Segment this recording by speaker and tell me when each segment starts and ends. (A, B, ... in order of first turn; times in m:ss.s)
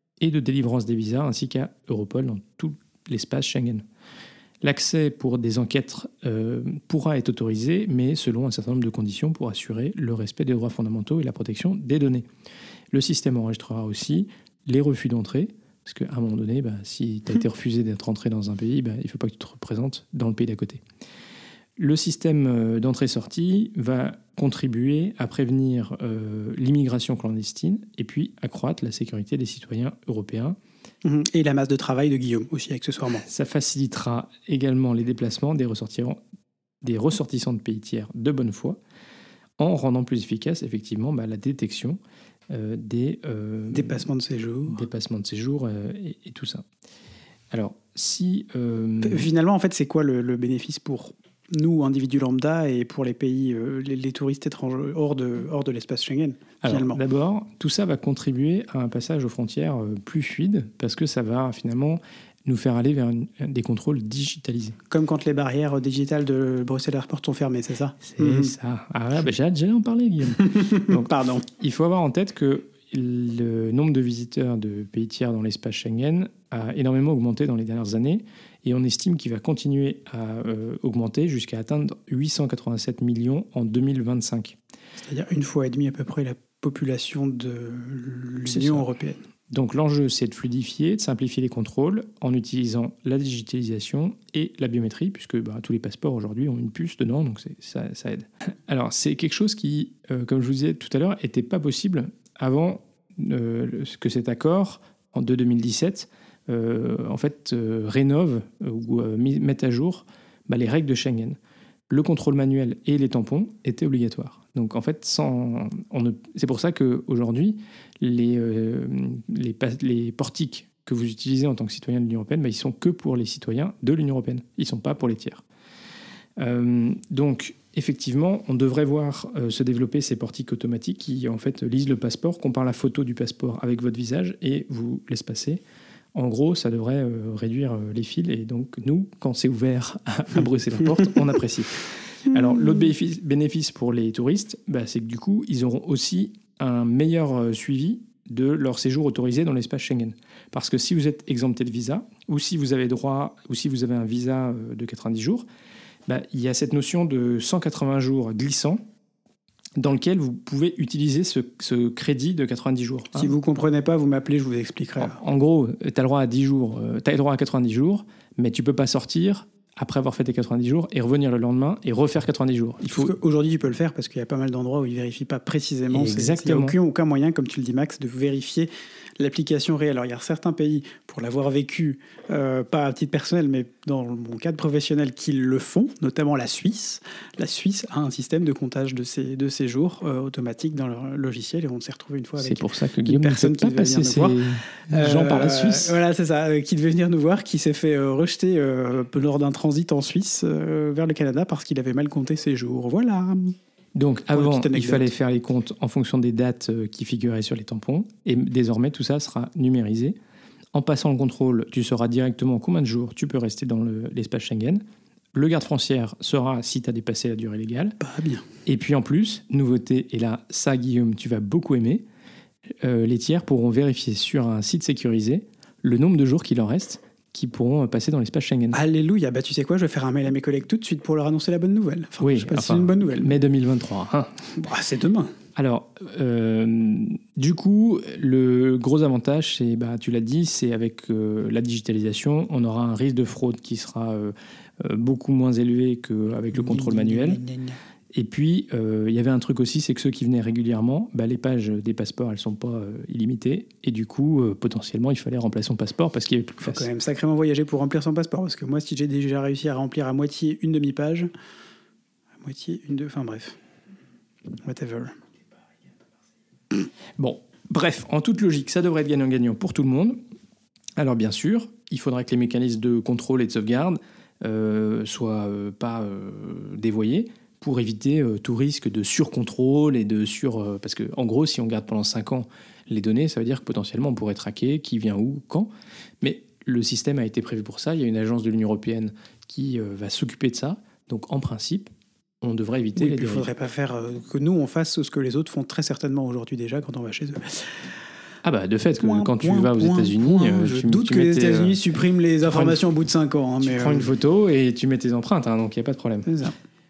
0:00.2-0:03.8 A
0:04.6-0:12.3 A
0:12.9-0:20.8 A
0:21.8-0:30.6 A
0:31.0-0:33.2 B
0:33.2-0:36.2 A
0:36.8-0:38.8 A
0:39.6-0:42.0 A
0:42.5-0:44.0 A
0:43.7-0:44.8 B
0:44.7-0:46.6 A
0:47.5-0:49.3 A
0:49.0-0:57.0 B
0:56.6-1:04.8 A
1:04.9-1:08.5 B
1:08.0-1:24.6 A
1:10.4-1:11.4 B
1:25.0-1:29.2 B
1:28.4-1:28.8 A
1:29.5-1:51.4 A
1:51.9-2:05.4 A
2:06.4-2:15.6 A
2:16.1-2:35.4 A
2:36.1-2:38.8 A
2:39.8-2:43.3 A
2:43.1-2:45.2 B
2:45.0-2:53.1 A
2:52.9-3:23.6 B
2:55.9-2:56.8 A
3:12.4-3:16.0 A
3:23.9-3:30.2 A
3:24.3-3:25.1 B
3:30.7-3:34.8 A
3:35.3-3:38.0 A
3:38.0-3:38.4 B
3:38.6-3:42.0 A
3:42.8-3:48.8 A
3:48.7-3:53.3 B
3:52.2-3:54.5 A
3:54.6-3:55.3 B
3:55.5-4:07.4 A
4:06.5-4:07.8 B
4:08.1-4:16.9 A
4:16.6-4:21.3 B
4:22.4-4:23.6 B
4:24.6-4:25.2 B
4:27.2-4:30.2 A
4:31.0-4:53.5 A
4:53.0-4:57.8 B
4:58.4-5:01.8 A
4:59.0-5:04.1 B
5:02.5-5:02.8 A
5:03.6-5:06.3 A
5:06.2-5:06.5 B